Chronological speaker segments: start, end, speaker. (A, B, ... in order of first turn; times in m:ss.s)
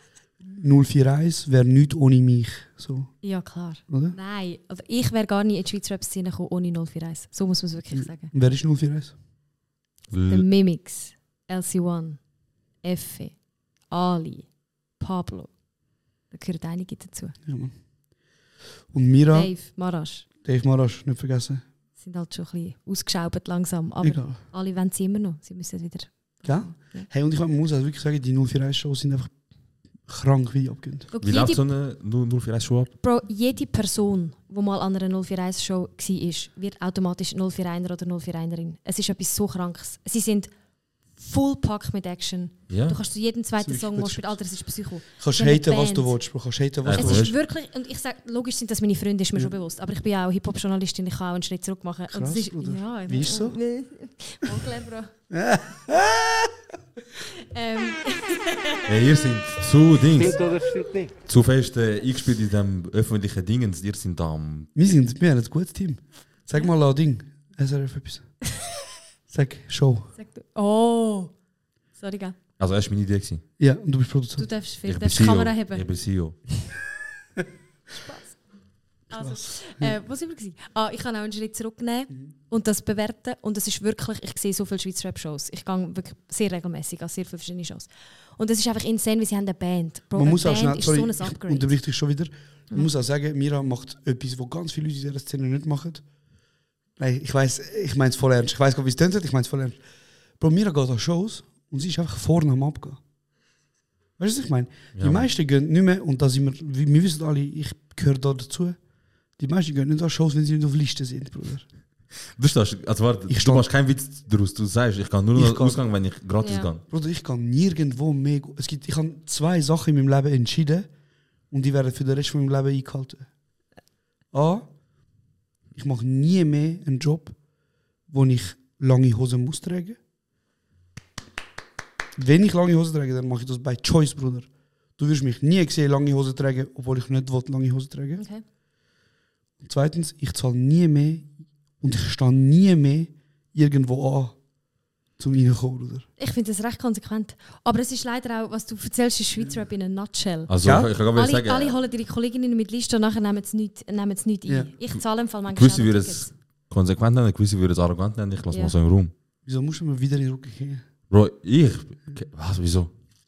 0:00.5-0:03.1 A
0:03.2-0:08.3 B
0:03.9-0:04.2 A
0:08.0-0:09.2 A
0:10.1-0:10.4 C
0:10.3-0:12.2 B
0:12.8-0:13.4 B
0:13.9-0:14.5 B
0:15.0-0:15.5 B
0:16.3-0:17.4 B
0:17.4-0:17.7 A
0:18.9-0:19.5 A
0:19.3-0:20.3 B
0:20.4-0:21.6 A
0:22.0-0:27.1 B
0:24.0-0:24.4 A
0:26.4-0:29.3 A
0:30.1-0:31.1 A
0:31.1-0:31.6 B
0:31.2-0:32.9 C
0:33.0-0:40.5 B
0:41.1-0:46.2 B
0:42.7-0:43.0 C
0:43.6-0:44.3 A
0:45.2-0:47.3 A
0:46.8-0:47.3 C
0:47.0-0:55.1 B
0:52.1-0:53.6 A
0:55.3-0:56.6 A
0:57.4-0:58.9 B
0:58.9-1:00.4 C
1:01.3-1:04.7 C
1:04.8-1:08.3 A
1:09.3-1:10.1 A
1:10.2-1:11.3 B
1:12.0-1:12.4 B
1:12.6-1:13.4 C
1:13.6-1:14.5 A
1:14.4-1:15.8 B
1:14.8-1:16.4 C
1:18.0-1:18.4 B
1:19.1-1:20.0 A
1:19.1-1:31.8 B
1:30.1-1:36.0 A
1:37.0-1:39.8 A
1:40.4-1:43.0 A
1:44.2-1:48.8 A
1:45.0-1:45.3 C
1:49.4-1:51.7 A
1:52.3-1:56.8 C
1:53.3-1:53.7 A
1:55.4-1:55.8 A
1:56.4-1:56.7 B
1:56.9-2:00.9 A
2:01.5-2:03.3 A
2:04.3-2:04.7 A
2:05.8-2:07.4 A
2:08.1-2:10.0 A
2:12.2-2:18.2 A
2:18.2-2:18.4 B
2:19.6-2:24.4 A
2:25.2-2:26.1 A
2:26.2-2:36.3 B
2:30.5-2:31.8 C
2:30.6-2:30.9 A
2:35.5-2:39.1 C
2:39.5-2:40.8 A
2:41.1-2:42.9 C